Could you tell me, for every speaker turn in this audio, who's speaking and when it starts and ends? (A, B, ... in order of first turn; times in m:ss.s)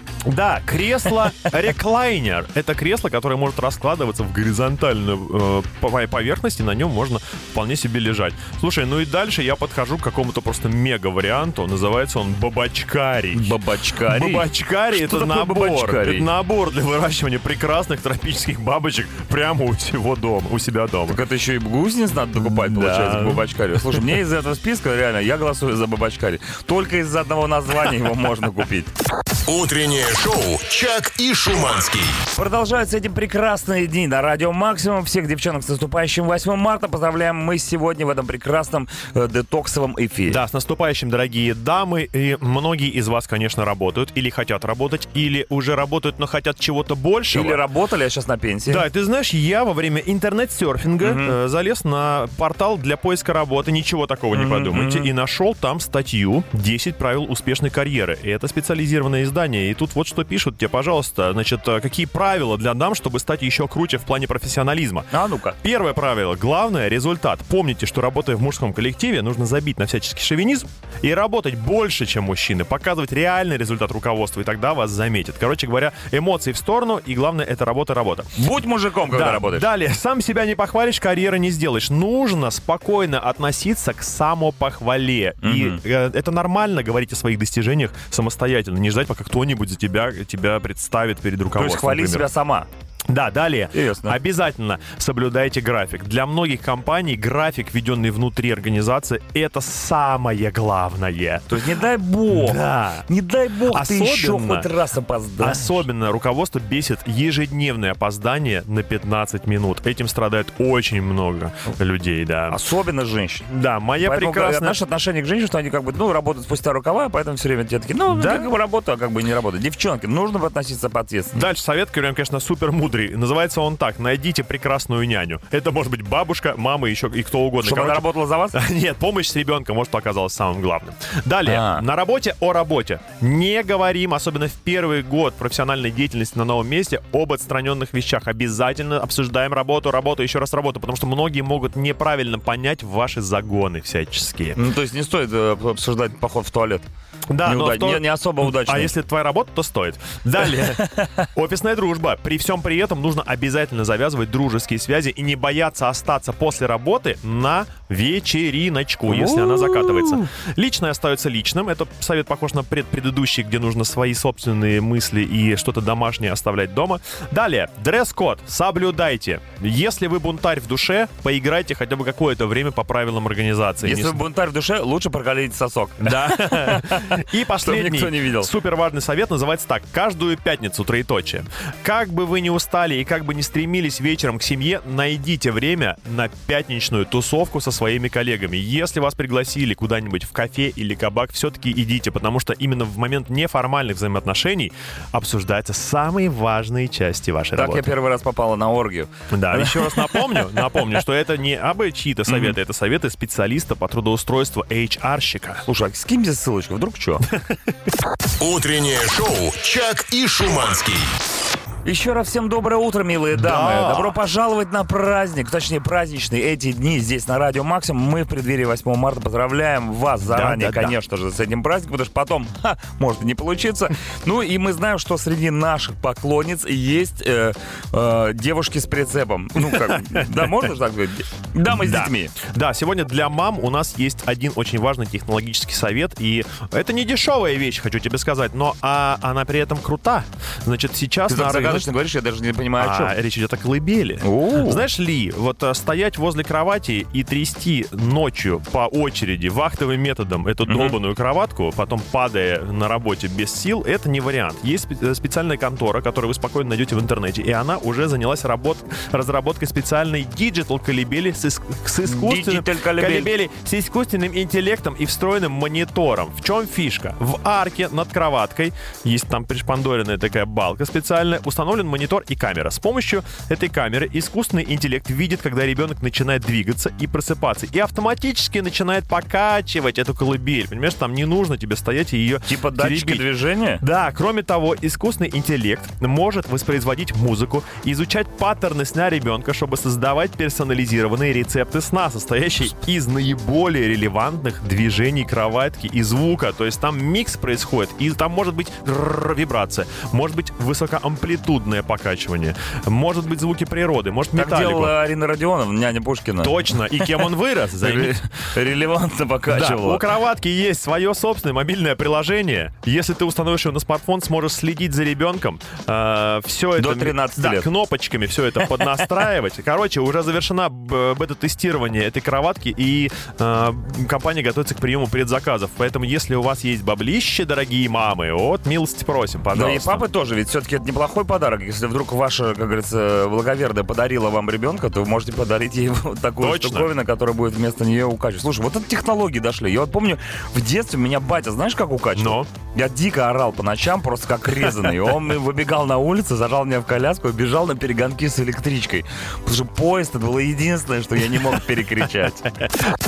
0:00.3-0:21.2 A
0:13.3-0:16.3 B
0:21.1-0:28.9 B
0:22.4-0:24.0 A
0:29.4-0:32.3 C
0:32.4-0:40.4 B
0:40.3-0:47.6 A
0:47.3-0:48.9 B
0:48.7-1:05.1 A
0:51.0-0:51.4 B
0:54.3-0:55.1 B
1:05.1-1:05.6 B
1:05.6-1:18.3 A
1:18.4-1:19.7 B
1:19.1-1:32.3 A
1:25.4-1:25.8 B
1:31.6-1:32.7 B
1:33.1-1:41.7 A
1:33.7-1:34.2 B
1:41.5-1:45.8 B
1:42.3-1:43.0 A
1:43.7-1:44.7 A
1:45.4-1:52.6 A
1:52.5-1:53.5 B
1:53.5-1:54.8 A
1:54.0-2:01.4 B
1:58.1-1:58.5 A
2:01.3-2:24.6 A
2:07.6-2:08.6 B
2:11.4-2:11.8 B
2:24.6-2:26.9 B
2:27.3-2:54.2 A
2:27.4-2:28.9 B
2:39.1-2:40.2 B
2:53.8-2:58.5 B
2:56.0-3:17.9 A
3:17.6-3:20.5 B
3:19.3-3:25.6 A
3:22.3-3:22.6 B
3:25.7-3:27.3 B
3:28.4-3:31.2 C
3:31.8-3:52.4 B
3:33.3-3:34.2 A
3:40.3-3:41.0 A
3:49.6-3:50.7 A
3:51.7-4:01.9 A
4:01.3-4:03.1 B
4:02.8-4:43.3 A
4:04.2-4:04.8 B
4:10.7-4:11.0 B
4:22.0-4:23.3 B
4:42.5-4:43.8 B
4:43.8-5:04.9 A
5:04.4-5:10.0 B
5:06.4-5:08.2 A
5:09.5-5:30.0 A
5:16.8-5:17.7 B
5:29.5-5:52.4 B
5:36.4-5:36.9 A
5:42.2-5:42.5 A